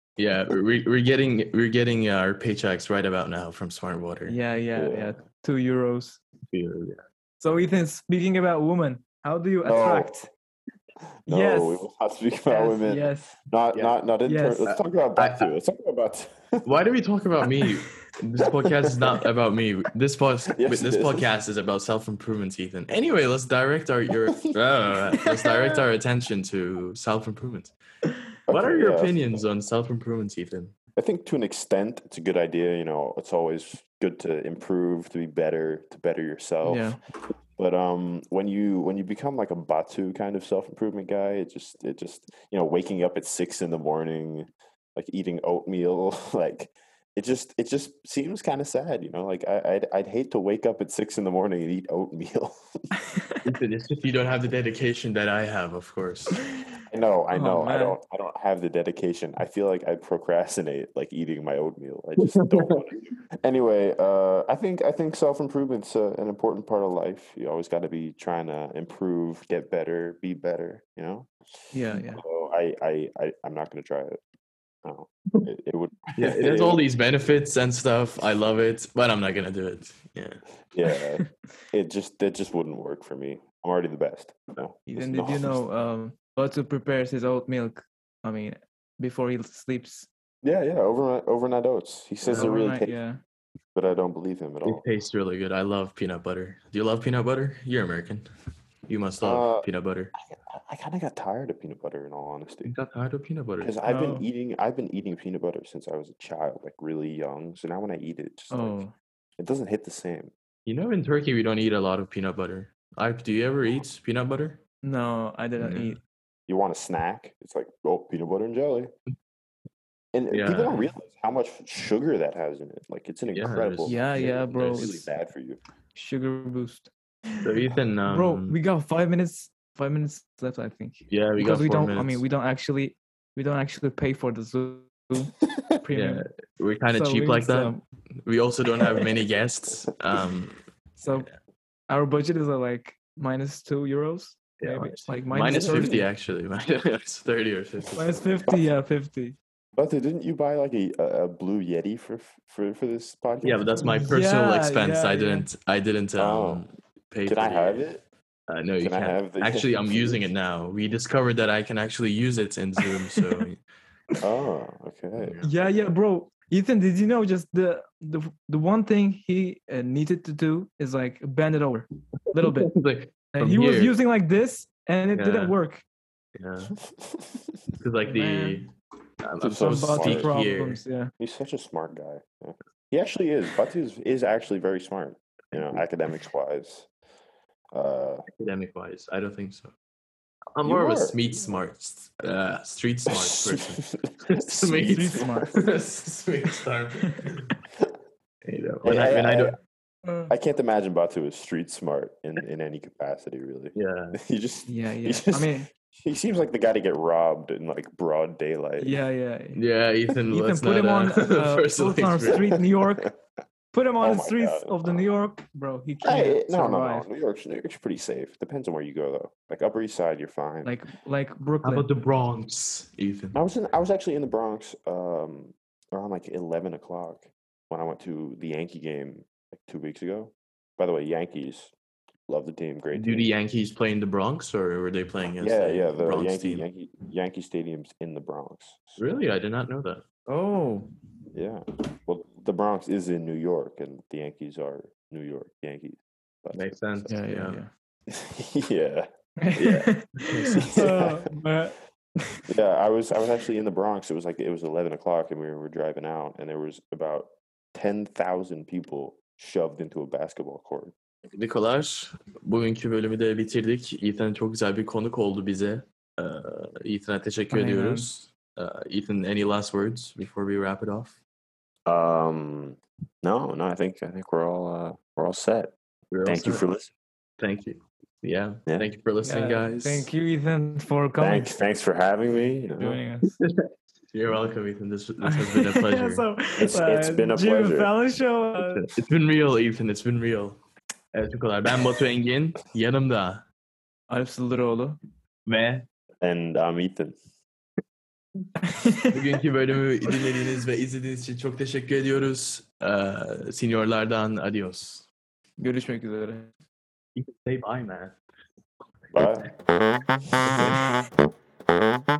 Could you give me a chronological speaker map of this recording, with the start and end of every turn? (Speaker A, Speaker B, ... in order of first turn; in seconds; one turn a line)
Speaker A: 0.2-4.4
Speaker B: 4.3-6.2
Speaker C: 4.7-5.2
Speaker A: 6.5-7.0
Speaker B: 7.4-10.3
Speaker C: 9.6-10.1
Speaker C: 11.2-16.6
Speaker B: 11.3-11.9
Speaker B: 12.5-13.4
Speaker B: 14.2-14.7
Speaker A: 14.7-15.5
Speaker A: 16.6-27.7
Speaker C: 20.6-21.2
Speaker C: 28.5-29.4
Speaker A: 28.5-30.7
Speaker C: 30.9-36.9
Speaker B: 36.6-37.0
Speaker C: 37.6-52.6
Speaker B: 53.1-53.4
Speaker A: 53.4-56.4
Speaker C: 56.9-71.3
Speaker B: 57.3-58.0
Speaker A: 62.2-62.7
Speaker B: 71.7-72.2
Speaker C: 72.1-74.2
Speaker C: 74.8-76.8
Speaker A: 76.2-80.4
Speaker C: 80.7-85.6
Speaker B: 84.9-90.1
Speaker C: 90.4-92.9
Speaker B: 92.3-93.2
Speaker C: 93.7-94.8
Speaker A: 94.6-98.3
Speaker A: 98.9-100.1
Speaker C: 99.2-102.7
Speaker A: 102.6-103.8
Speaker C: 103.6-108.8
Speaker B: 103.8-104.2
Speaker B: 108.5-108.9
Speaker C: 109.4-110.3
Speaker A: 110.7-114.6
Speaker B: 114.8-116.0
Speaker A: 115.6-116.0
Speaker C: 116.5-118.9
Speaker C: 120.1-125.6
Speaker A: 120.3-120.9
Speaker A: 123.3-125.1
Speaker B: 123.8-125.0
Speaker B: 125.9-127.5
Speaker A: 127.4-128.6
Speaker B: 128.1-136.2
Speaker A: 131.1-132.2
Speaker A: 135.9-137.7
Speaker B: 136.9-137.8
Speaker A: 138.2-141.4
Speaker B: 140.9-141.3
Speaker B: 141.9-146.1
Speaker A: 144.6-148.5
Speaker C: 145.4-145.9
Speaker B: 147.9-149.4
Speaker C: 149.8-154.1
Speaker A: 153.4-157.9
Speaker B: 153.8-155.5
Speaker C: 156.2-156.7
Speaker C: 157.2-158.0
Speaker A: 158.5-163.6
Speaker C: 158.8-160.3
Speaker C: 164.2-165.4
Speaker A: 165.2-165.5
Speaker B: 165.4-172.7
Speaker A: 172.3-174.0
Speaker B: 173.3-175.8
Speaker A: 175.1-175.6
Speaker A: 176.3-176.7
Speaker C: 176.9-177.6
Speaker A: 177.8-178.7
Speaker B: 178.0-178.7
Speaker A: 179.2-180.8
Speaker B: 179.4-181.1
Speaker C: 179.4-180.3
Speaker C: 181.2-186.9
Speaker C: 187.7-188.2
Speaker A: 188.4-189.7
Speaker A: 190.5-197.4
Speaker C: 190.6-191.2
Speaker C: 193.3-195.7
Speaker B: 194.8-195.5
Speaker A: 198.4-199.6
Speaker C: 198.8-199.6
Speaker B: 200.0-200.3
Speaker C: 200.3-209.1
Speaker A: 203.7-204.2
Speaker B: 204.7-205.7
Speaker B: 208.8-209.6
Speaker A: 209.5-212.6
Speaker B: 210.3-213.1
Speaker C: 212.3-213.1
Speaker B: 213.7-217.1
Speaker C: 214.0-215.1
Speaker C: 216.0-220.7
Speaker B: 220.6-221.9
Speaker A: 221.6-223.3
Speaker C: 223.3-231.7
Speaker C: 232.3-233.3
Speaker A: 232.9-236.7
Speaker C: 235.4-239.0
Speaker A: 239.0-240.0
Speaker B: 240.3-240.9
Speaker C: 241.3-247.2
Speaker A: 246.5-247.6
Speaker B: 247.1-247.7
Speaker C: 248.1-249.9
Speaker B: 249.4-252.3
Speaker A: 250.3-250.7
Speaker C: 250.4-251.2
Speaker C: 252.5-260.9
Speaker A: 261.3-271.2
Speaker B: 267.5-268.1
Speaker C: 271.9-275.7
Speaker A: 276.1-276.7
Speaker C: 276.2-276.9
Speaker A: 277.4-280.1
Speaker B: 279.2-281.5
Speaker C: 281.2-283.0
Speaker B: 282.8-283.4
Speaker A: 283.4-283.6
Speaker A: 284.1-286.2
Speaker B: 285.3-288.9
Speaker C: 286.6-287.9
Speaker A: 288.6-290.6
Speaker A: 291.1-293.4
Speaker B: 294.1-295.0
Speaker A: 295.4-295.9
Speaker C: 296.2-297.1
Speaker B: 298.6-299.1
Speaker A: 299.1-305.1
Speaker B: 305.6-306.5
Speaker A: 307.1-308.1
Speaker C: 309.1-309.5
Speaker C: 310.4-310.8